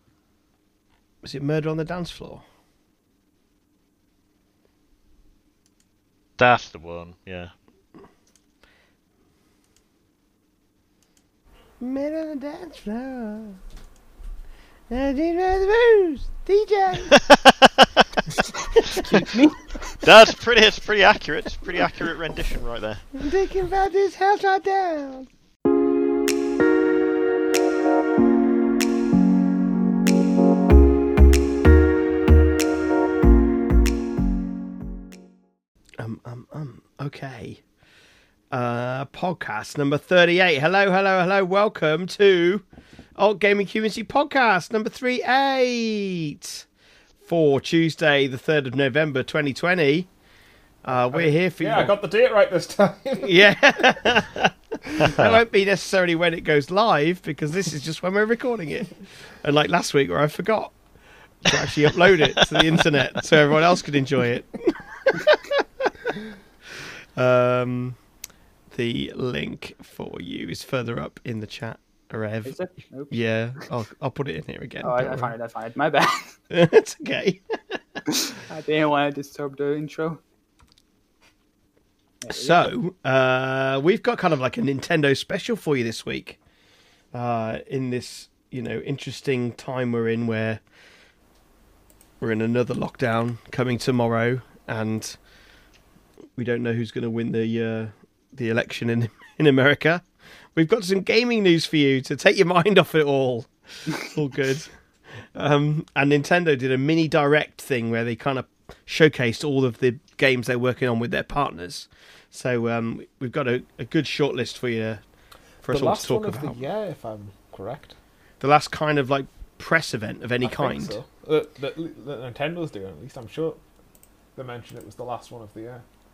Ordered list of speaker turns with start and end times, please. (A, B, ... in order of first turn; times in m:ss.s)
0:01.2-0:02.4 A
0:06.4-0:07.5 B
0:11.8-0:13.6 A
0:14.9-0:17.1 A
0:17.1-0:18.0 B
0:18.8-0:20.0 C
0:20.0-0:23.0 B
0:23.1-0:25.3 A
0:36.0-0:37.6 A
0:38.5-0:42.6 A
0:43.2-0:46.6 A
0:47.2-0:50.1 A
0:50.8-0:51.9 A
0:50.9-0:53.4 D
0:53.2-1:00.7 A
0:55.0-0:55.4 B
1:01.4-1:05.9 A
1:07.2-1:08.0 A
1:08.7-1:12.6 A
1:12.4-1:13.2 C
1:13.1-1:15.3 A
1:14.8-1:16.3 C
1:16.5-1:17.8 A
1:18.1-1:20.2 C
1:22.2-1:22.7 C
1:22.3-1:26.4 A
1:27.1-1:30.6 A
1:32.2-1:35.2 A
1:36.4-1:44.7 A
1:45.3-1:55.0 A
1:55.6-1:56.6 A
1:55.7-1:58.0 D
1:58.4-2:01.0 A
2:00.4-2:03.6 D
2:04.3-2:05.8 D